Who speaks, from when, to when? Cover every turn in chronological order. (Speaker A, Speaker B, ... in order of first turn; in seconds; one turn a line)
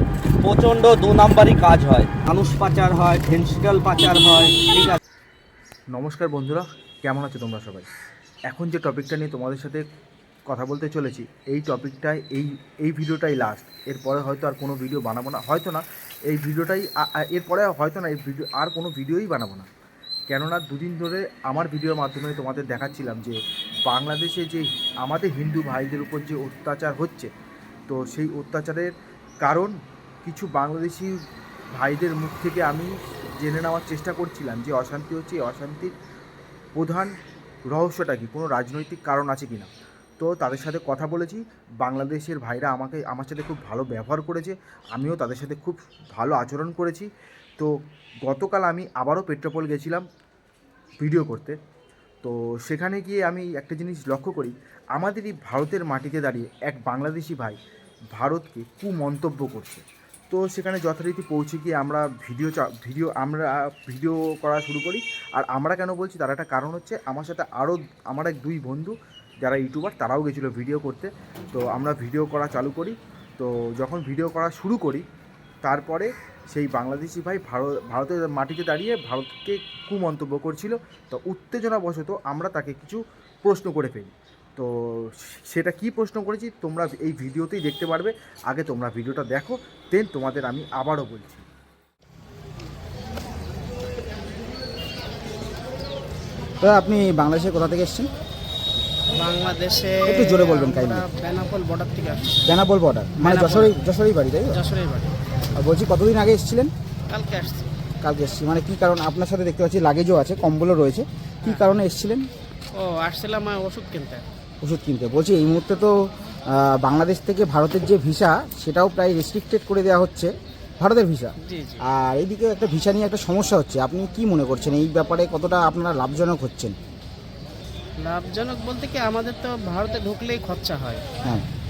Speaker A: 0.4-5.0
Speaker B: 5.9-7.9
Speaker B: 8.5-9.8
Speaker B: 10.5-19.7
Speaker B: 20.3-27.3
Speaker B: 27.9-29.7
Speaker B: 30.2-31.1
Speaker B: 31.8-35.9
Speaker B: 36.8-37.1
Speaker B: 37.7-47.7
Speaker B: 48.2-50.0
Speaker B: 51.0-51.5
Speaker B: 52.2-57.6
Speaker B: 58.1-75.0
Speaker B: 75.6-91.4
Speaker C: 96.6-98.1
Speaker D: 99.2-102.4
Speaker C: 100.0-101.0
Speaker C: 102.5-104.6
Speaker D: 103.2-103.8
Speaker D: 104.5-105.1
Speaker C: 105.5-106.7
Speaker D: 107.1-107.7
Speaker C: 108.0-112.2
Speaker D: 111.4-111.7
Speaker D: 112.7-114.2
Speaker C: 114.6-126.7
Speaker D: 121.4-121.8
Speaker D: 128.0-131.0